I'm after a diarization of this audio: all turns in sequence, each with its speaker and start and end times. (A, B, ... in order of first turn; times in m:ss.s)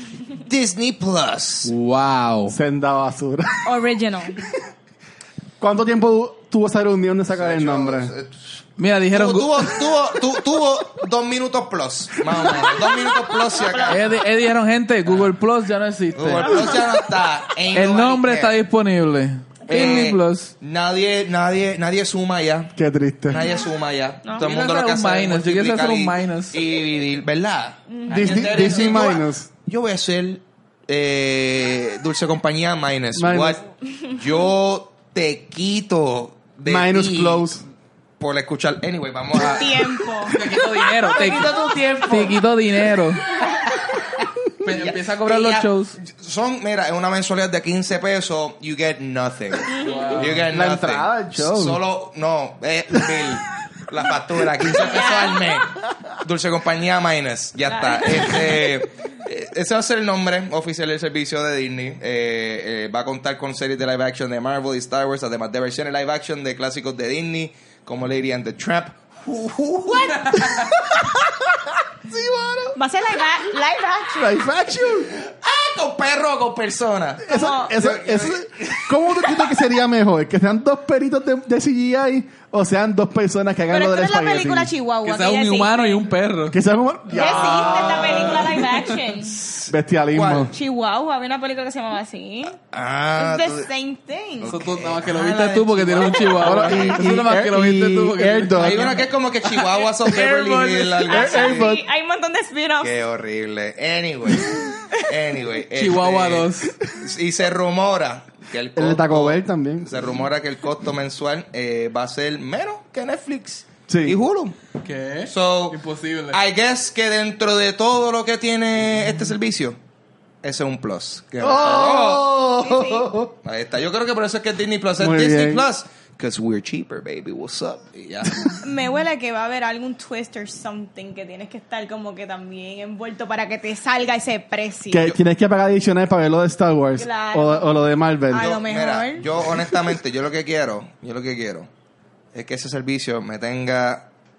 0:00.4-0:01.7 A
0:01.6-0:02.6 B
0:02.5-0:03.7 C
0:03.6-0:04.4 D
0:05.6-0:08.1 C
0:07.4-0:14.0 A
0:08.8-0:09.8 B
0:12.3-0:13.2 C
0:13.5-0:14.1 D
0:13.9-0:16.7 B
0:16.2-0:18.6 A
0:16.4-0:16.9 D
0:17.7-0:20.5 B
0:19.7-0:22.7 A
0:22.8-0:23.5 C
0:23.3-0:37.5 A
0:23.3-0:23.7 D
0:24.2-0:24.5 D
0:24.4-0:26.6 B
0:27.9-0:29.0 D
0:28.1-0:29.5 C
0:33.2-0:33.6 C
0:33.9-0:34.2 D
0:36.7-0:37.6 C
0:38.2-0:40.0 A
0:39.3-0:40.6 D
0:40.2-0:43.4 B
0:41.1-0:42.4 A
0:41.1-0:42.1 D
0:44.6-0:46.0 B
0:44.7-1:11.0 A
0:49.7-0:50.2 D
0:49.8-0:50.5 B
0:50.2-0:51.8 C
0:54.8-0:55.4 D
0:57.7-0:58.7 D
1:12.0-1:12.8 C
1:12.8-1:14.5 D
1:14.2-1:15.1 C
1:15.0-1:19.5 A
1:17.2-1:24.7 C
1:17.3-1:17.8 D
1:23.7-1:26.0 D
1:25.0-1:26.6 B
1:26.5-1:28.3 C
1:27.1-1:28.6 B
1:27.1-1:29.4 D
1:27.4-1:28.6 A
1:29.3-1:30.5 A
1:29.7-1:30.6 C
1:30.3-1:32.6 D
1:32.6-1:33.7 A
1:33.2-1:34.6 D
1:34.4-1:37.0 A
1:34.4-1:39.0 B
1:36.4-1:39.0 C
1:38.6-1:41.7 A
1:40.1-1:41.0 B
1:41.0-1:43.0 D
1:41.1-1:41.8 C
1:42.8-1:54.6 A
1:45.8-1:46.7 B
1:48.8-1:50.1 C
1:53.9-1:54.2 C
1:54.8-1:56.4 B
1:55.3-1:55.8 A
1:56.3-1:59.8 A
2:00.4-2:02.4 A
2:01.4-2:03.3 C
2:01.6-2:01.9 D
2:02.6-2:03.1 D
2:03.4-2:08.6 A
2:05.0-2:05.7 C
2:08.3-2:08.6 C
2:08.6-2:15.1 D
2:14.9-2:18.5 C
2:17.0-2:19.6 D
2:18.3-2:21.7 A
2:22.3-2:24.1 A